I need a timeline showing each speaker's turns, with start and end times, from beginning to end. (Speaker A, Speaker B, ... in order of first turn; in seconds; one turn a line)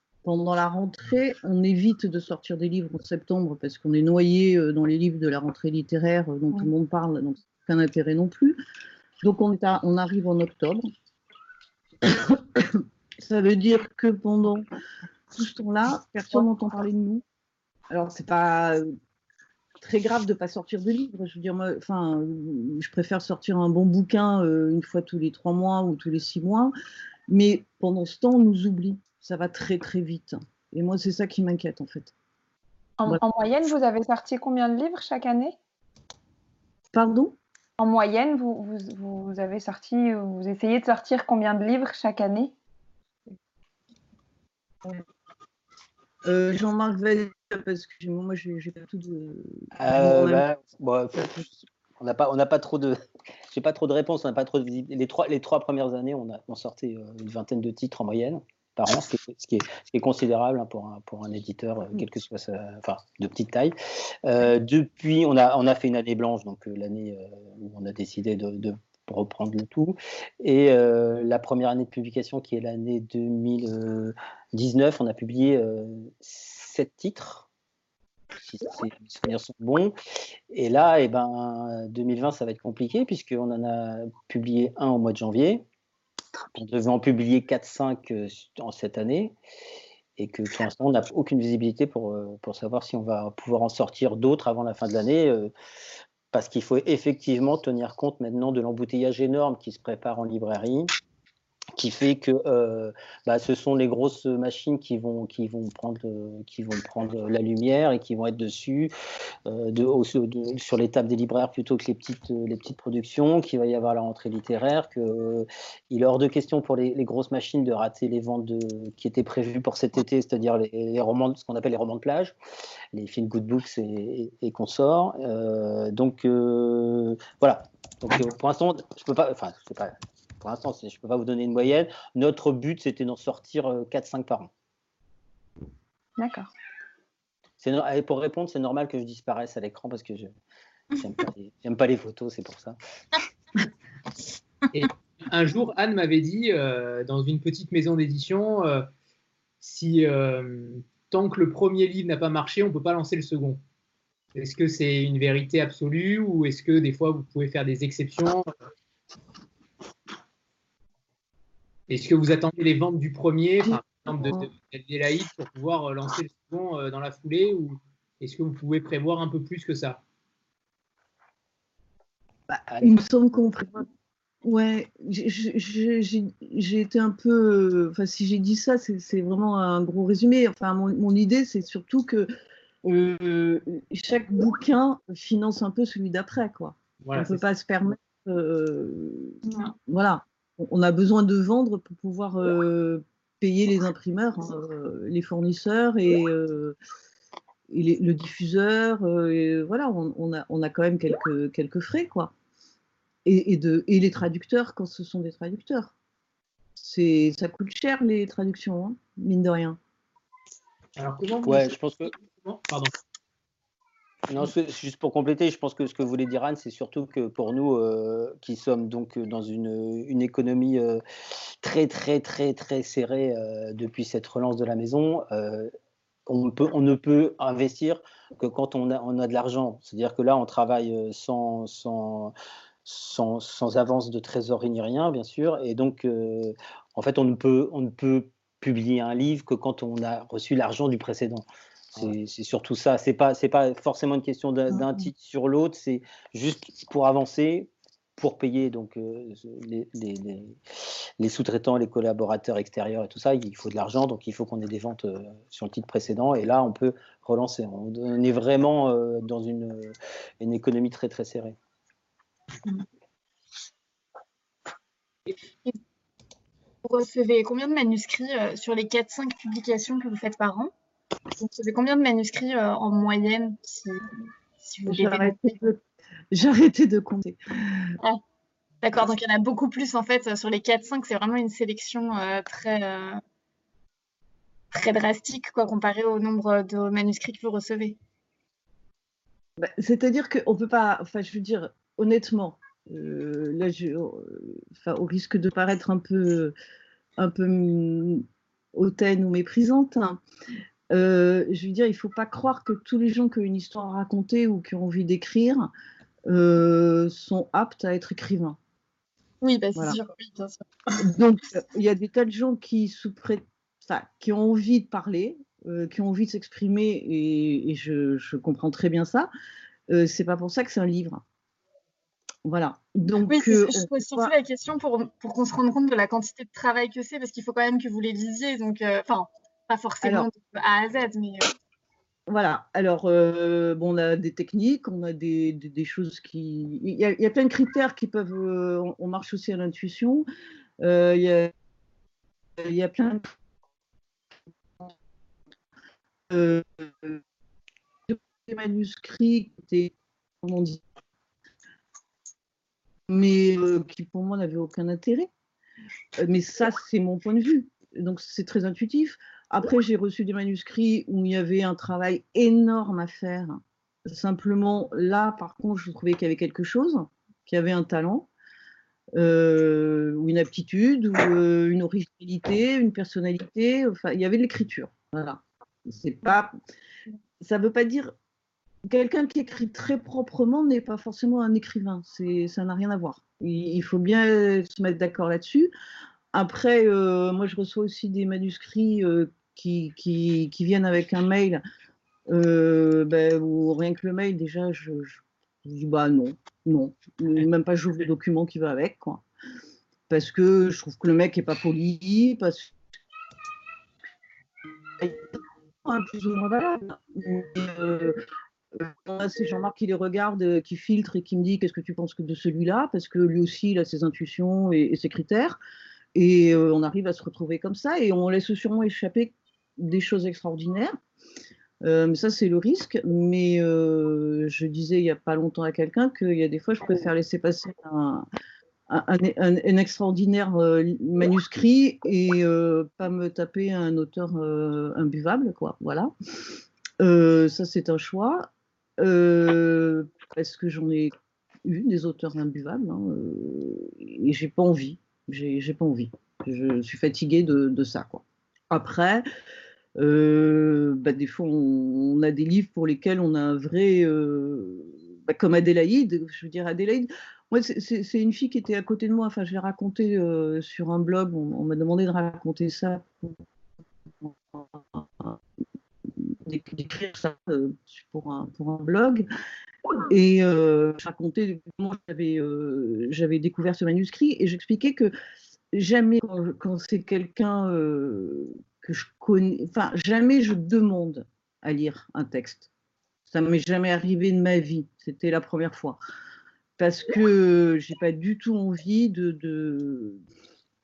Speaker A: 0.2-8.6
Speaker A: 9.2-10.9
Speaker A: 12.0-14.7
Speaker A: 15.3-17.2
Speaker A: 17.9-18.9
Speaker A: 19.8-26.7
Speaker A: 27.3-32.1
Speaker B: 33.0-35.6
Speaker A: 36.9-37.4
Speaker B: 37.8-42.5
Speaker A: 46.2-50.5
Speaker C: 49.7-77.5
Speaker C: 78.4-79.9
Speaker C: 80.5-85.6
Speaker C: 86.5-89.3
Speaker C: 90.2-95.5
Speaker C: 96.3-100.9
Speaker C: 101.8-108.9
Speaker C: 109.5-122.4
Speaker C: 122.9-134.5
Speaker B: 136.2-136.5
Speaker C: 137.6-140.3
Speaker C: 141.0-142.8
Speaker D: 144.7-148.9
Speaker D: 149.6-153.6
Speaker D: 154.3-158.5
Speaker D: 161.9-170.0
Speaker A: 172.5-173.9
Speaker C: 172.7-173.0
Speaker A: 174.4-182.3
Speaker A: 182.8-189.4
Speaker D: 187.0-187.4
Speaker A: 189.9-196.8
Speaker A: 197.7-202.3
Speaker A: 203.2-205.9
Speaker A: 206.8-209.8
Speaker D: 211.0-212.9
Speaker C: 211.4-212.1
Speaker C: 214.3-221.0
Speaker C: 221.6-225.7
Speaker C: 226.3-232.3
Speaker C: 232.8-250.6
Speaker C: 251.2-261.6
Speaker E: 266.8-270.7
Speaker E: 271.4-274.1
Speaker E: 274.6-275.4
Speaker A: 274.9-275.8
Speaker A: 276.3-277.9
Speaker E: 278.8-283.2
Speaker E: 284.7-288.0
Speaker A: 289.6-296.5
Speaker A: 297.2-300.2
Speaker A: 300.9-305.7
Speaker A: 306.3-308.6
Speaker E: 309.4-310.6
Speaker A: 311.0-319.3
Speaker A: 319.9-321.2
Speaker A: 322.4-324.3
Speaker E: 323.3-331.5
Speaker A: 330.0-330.3
Speaker A: 332.3-340.3
Speaker A: 340.8-341.5
Speaker A: 342.6-343.2
Speaker A: 346.3-347.2
Speaker A: 348.1-350.8
Speaker A: 353.1-355.3
Speaker A: 356.2-368.3
Speaker A: 369.1-376.5
Speaker A: 377.4-378.1
Speaker A: 378.9-385.7
Speaker A: 386.3-391.6
Speaker A: 392.3-399.2
Speaker A: 400.1-402.7
Speaker A: 405.0-408.2
Speaker A: 408.7-415.6
Speaker A: 416.1-421.0
Speaker A: 421.8-428.2
Speaker A: 428.9-436.1
Speaker A: 437.0-441.1
Speaker A: 441.6-449.2
Speaker A: 450.0-463.4
Speaker A: 464.2-465.4
Speaker A: 466.2-469.3
Speaker A: 470.1-475.1
Speaker A: 475.7-482.7
Speaker A: 483.3-486.0
Speaker A: 486.8-490.2